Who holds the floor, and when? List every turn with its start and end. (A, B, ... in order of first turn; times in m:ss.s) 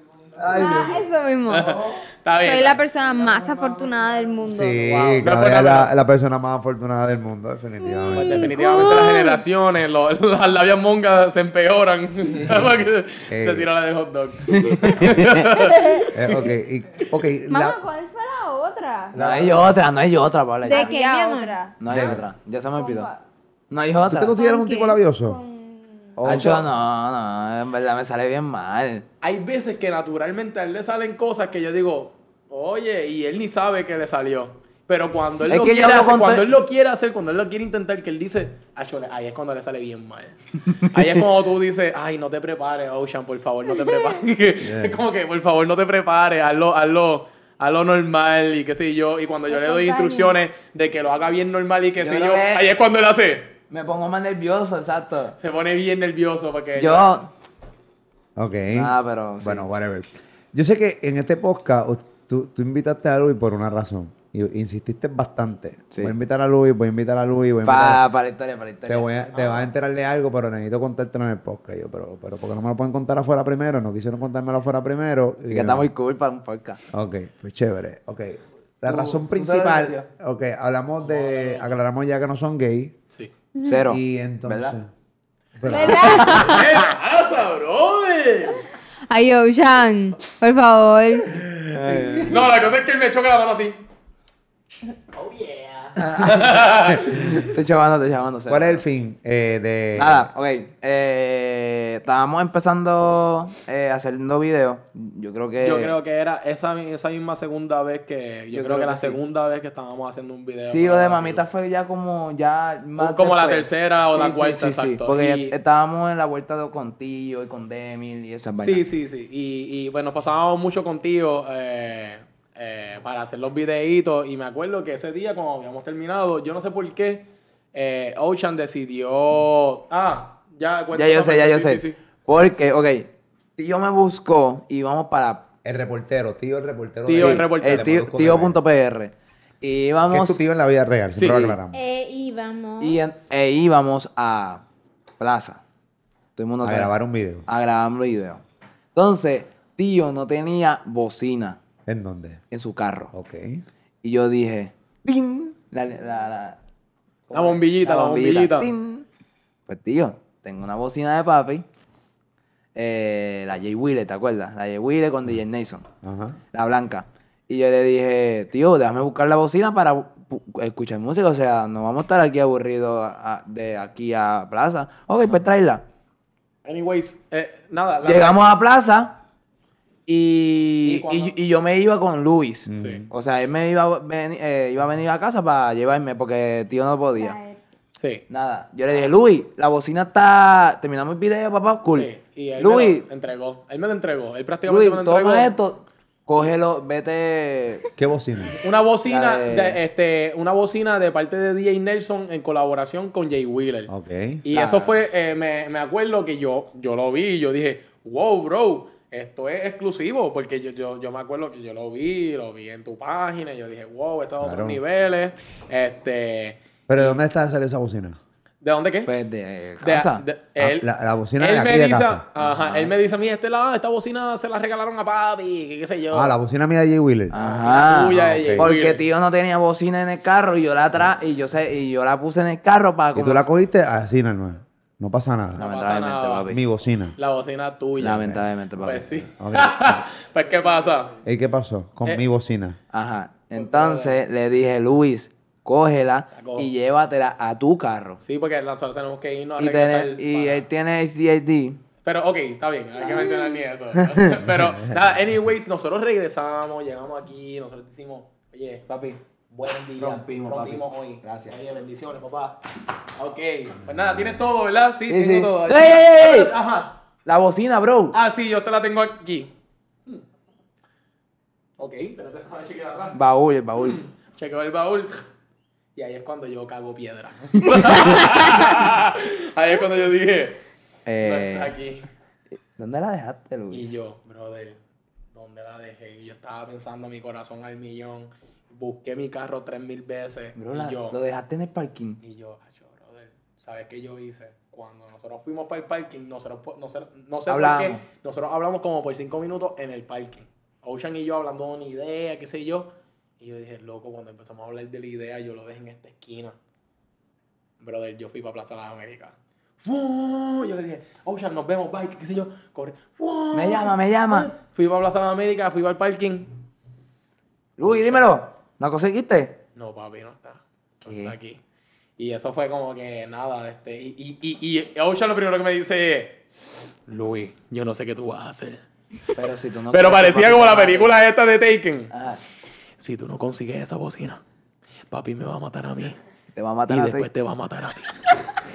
0:00.3-0:01.0 A
0:00.5-0:01.8 B
0:01.5-0:02.8 C
0:02.4-0:04.9 B
0:04.4-0:08.6 A
0:04.8-0:05.9 C
0:07.9-0:09.4 B
0:08.1-0:16.5 C
0:13.3-0:13.7 A
0:14.5-0:15.7 D
0:16.1-0:17.8 A
0:17.5-0:19.2 E
0:19.1-0:19.8 A
0:19.1-0:20.9 D
0:20.6-0:22.0 B
0:20.6-0:21.6 E
0:21.8-0:23.1 D
0:21.9-0:22.2 A
0:22.8-0:23.2 B
0:23.7-0:24.3 D
0:24.0-0:25.4 A
0:24.4-0:25.0 E
0:25.3-0:25.8 B
0:26.2-0:26.6 A
0:26.2-0:29.0 D
0:29.2-0:53.5 C
0:35.5-0:36.5 D
0:44.6-0:45.0 A
0:49.7-0:50.3 E
0:52.0-0:52.6 D
0:53.7-0:55.3 D
0:55.4-0:57.2 C
0:56.8-0:57.3 D
0:58.4-1:08.0 A
0:58.7-0:59.6 D
1:07.6-1:09.5 D
1:08.8-1:15.9 A
1:15.5-1:16.8 D
1:16.9-1:22.9 A
1:18.8-1:20.1 D
1:21.0-1:21.7 C
1:23.6-1:24.8 D
1:23.9-1:24.9 A
1:25.6-1:26.4 A
1:25.7-1:26.6 E
1:25.8-1:26.6 B
1:26.3-1:28.6 C
1:29.1-1:31.4 B
1:31.5-1:32.5 A
1:31.7-1:32.4 D
1:32.3-1:33.8 C
1:35.1-1:37.3 C
1:36.0-1:38.8 D
1:38.5-1:40.3 A
1:40.0-1:45.9 D
1:45.6-1:51.4 C
1:48.5-1:49.2 D
1:50.7-1:58.8 D
1:53.0-1:55.5 C
1:58.6-2:12.0 C
2:10.9-2:15.5 D
2:15.6-2:18.6 A
2:17.0-2:18.0 C
2:17.1-2:20.4 D
2:20.1-2:21.8 A
2:21.1-2:21.5 C
2:21.2-2:21.5 D
2:21.7-2:23.0 E
2:22.8-2:24.6 D
2:25.2-2:25.6 D
2:26.4-2:26.9 D
2:26.6-2:27.5 A
2:27.5-2:28.4 D
2:28.9-2:31.6 D
2:31.8-2:32.4 A
2:32.5-2:33.1 D
2:33.1-2:33.6 A
2:34.0-2:36.6 D
2:37.3-2:39.0 D
2:37.3-2:38.7 C
2:39.7-2:41.6 D
2:42.7-2:45.8 D
2:46.0-2:46.4 A
2:46.5-2:55.8 D
2:56.6-2:58.4 C
2:58.0-2:59.2 D
3:00.1-3:07.4 D
3:00.8-3:01.3 C
3:02.7-3:03.1 A
3:02.7-3:03.0 C
3:07.2-3:07.6 E
3:07.9-3:08.2 C
3:08.3-3:13.0 D
3:11.9-3:15.5 C
3:14.6-3:17.9 D
3:18.0-3:18.6 A
3:18.6-3:23.9 C
3:19.0-3:19.8 D
3:23.9-3:24.4 A
3:24.4-3:37.2 C
3:24.5-3:25.0 D
3:34.4-3:34.8 A
3:36.9-3:38.2 A
3:38.6-3:39.1 C
3:39.0-3:40.2 D
3:39.8-3:40.8 C
3:40.6-3:42.3 A
3:41.4-3:46.4 C
3:42.6-3:42.9 D
3:46.1-3:47.4 A
3:47.3-3:53.5 D
3:47.3-3:49.0 C
3:48.0-3:48.7 A
3:53.1-3:55.7 A
3:55.6-3:56.5 C
3:55.6-3:56.6 D
3:56.4-3:57.2 A
3:57.2-4:01.1 C
3:58.0-3:59.2 D
3:58.0-3:58.4 A
3:59.3-4:00.0 A
4:01.2-4:02.8 A
4:02.9-4:08.2 D
4:03.5-4:04.2 C
4:06.3-4:06.7 C
4:08.2-4:10.6 C
4:09.6-4:11.8 D
4:12.0-4:18.8 C
4:13.0-4:14.4 D
4:18.9-4:19.2 D
4:19.5-4:22.6 C
4:20.0-4:21.6 D
4:23.1-4:26.9 C
4:25.1-4:26.5 D
4:27.2-4:28.2 D
4:28.1-4:29.5 C
4:31.8-4:33.2 C
4:33.1-4:34.0 D
4:33.8-4:35.2 C
4:36.0-4:40.6 C
4:37.8-4:38.2 D
4:41.0-4:41.7 D
4:41.2-4:42.1 C
4:42.8-4:43.9 D
4:43.7-4:44.8 C
4:45.3-4:51.2 C
4:50.6-4:52.2 D
4:52.2-5:06.6 C
4:57.5-4:58.0 D
5:07.8-5:16.5 C
5:13.5-5:14.5 D
5:17.8-5:19.6 D
5:17.8-5:18.2 C
5:19.8-5:21.6 C
5:21.0-5:21.4 D
5:22.2-5:26.4 C
5:27.1-5:28.8 C
5:29.3-5:31.2 D
5:29.9-5:32.1 C
5:32.1-5:32.4 D
5:33.0-5:34.4 C
5:35.1-5:36.2 C
5:36.5-5:37.3 D
5:36.9-5:38.5 C